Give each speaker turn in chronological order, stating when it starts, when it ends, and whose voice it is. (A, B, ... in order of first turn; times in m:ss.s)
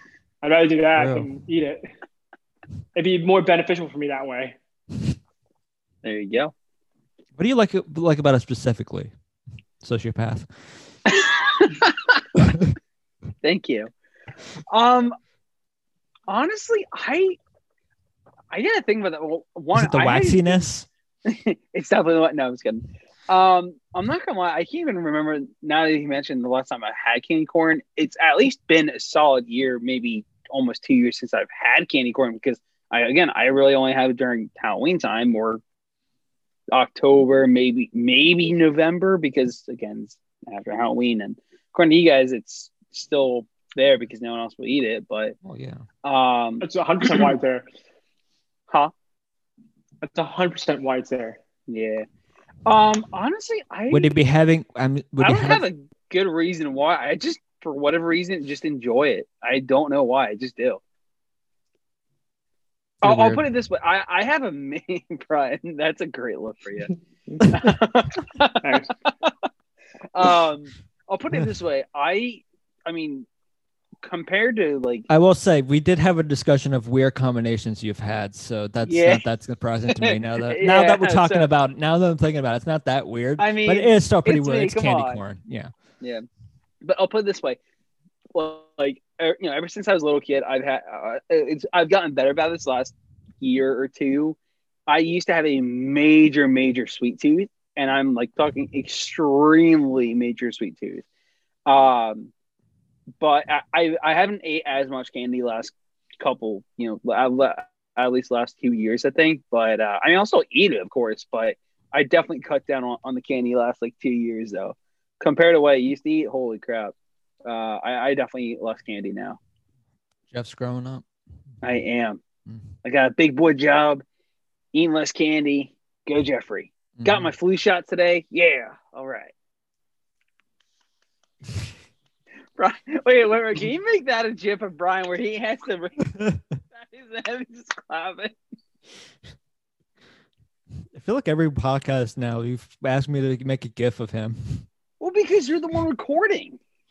0:00.4-0:01.8 A
0:00.9-0:01.3 B
0:03.0-0:04.5 A
0:06.0-0:06.5 C
0:07.4-0:09.1 B
0:09.8-0:10.5 B
0:11.1-0:12.2 C
0:13.4-0:13.9 C
0:14.7-0:15.2 C
0:16.3-0:17.4 C
0:18.5-0:20.7 C
0:19.7-0:20.9 B
0:21.2-0:35.6 C
0:36.7-0:45.4 C
0:45.4-0:45.8 B
0:46.0-0:47.3 C
0:46.6-0:47.6 A
0:50.1-0:51.4 A
0:51.7-0:52.0 C
0:52.6-0:54.2 C
0:53.9-0:55.6 B
0:55.2-1:00.8 C
1:03.0-1:03.4 B
1:03.0-1:06.9 C
1:07.4-1:09.3 C
1:10.1-1:13.3 C
1:14.0-1:15.1 C
1:15.1-1:25.7 B
1:18.8-1:19.2 C
1:20.0-1:21.5 C
1:23.4-1:25.2 C
1:26.8-1:27.6 C
1:28.3-1:34.4 C
1:34.9-1:41.0 C
1:41.6-1:42.3 C
1:43.2-1:56.9 C
1:57.4-1:59.4 C
2:00.3-2:01.0 B
2:01.6-2:02.2 C
2:02.8-2:04.0 C
2:04.7-2:09.3 C
2:07.0-2:07.3 B
2:12.6-2:16.1 C
2:16.7-2:18.3 C
2:20.9-2:24.6 B
2:25.0-2:26.6 C